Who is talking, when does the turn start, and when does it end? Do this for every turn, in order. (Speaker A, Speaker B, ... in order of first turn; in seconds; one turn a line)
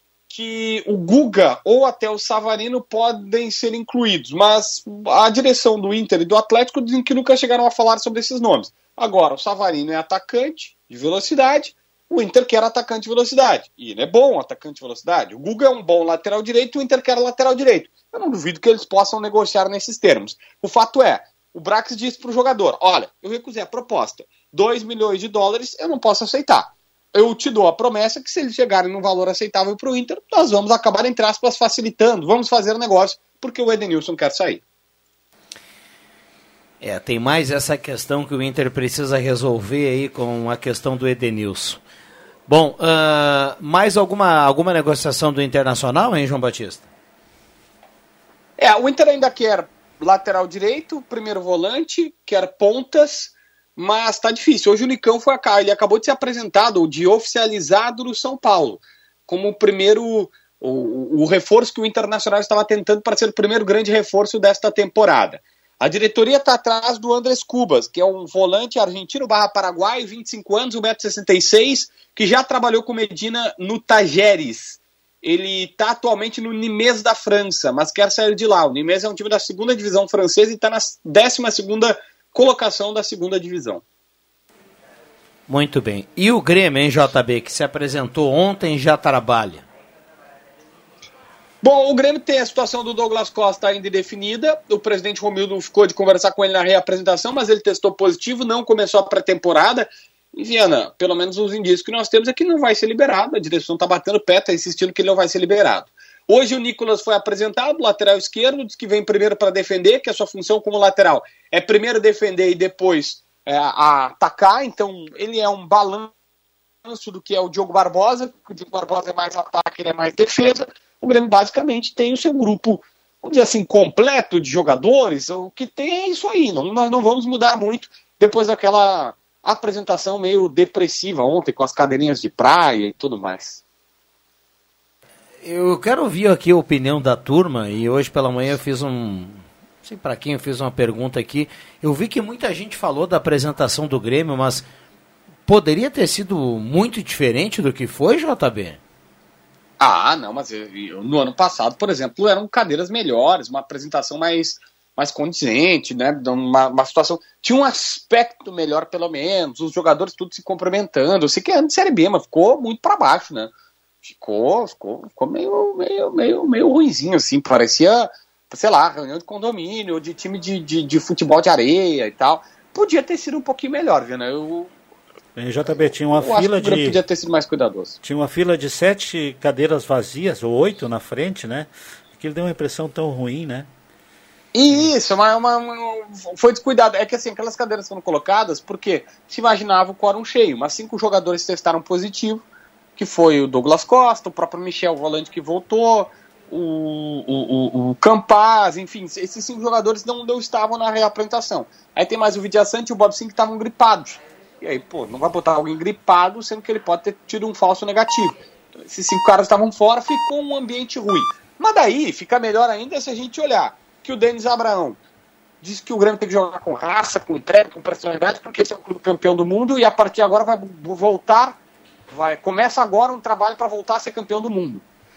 Speaker A: 0.3-34.6
Speaker B: 36.8-41.8
Speaker B: 42.5-46.9
Speaker A: 48.6-83.8
Speaker B: 85.5-89.6
Speaker A: 91.6-116.1
Speaker A: 116.8-133.6
Speaker B: 135.4-144.7
Speaker B: 145.5-148.8
Speaker A: 149.8-163.5
Speaker A: 164.0-174.7
Speaker C: 175.3-177.0
Speaker A: 176.1-178.0
Speaker C: 178.0-183.7
Speaker A: 184.5-192.4
Speaker A: 193.0-215.0
Speaker A: 215.6-221.5
Speaker A: 222.1-224.8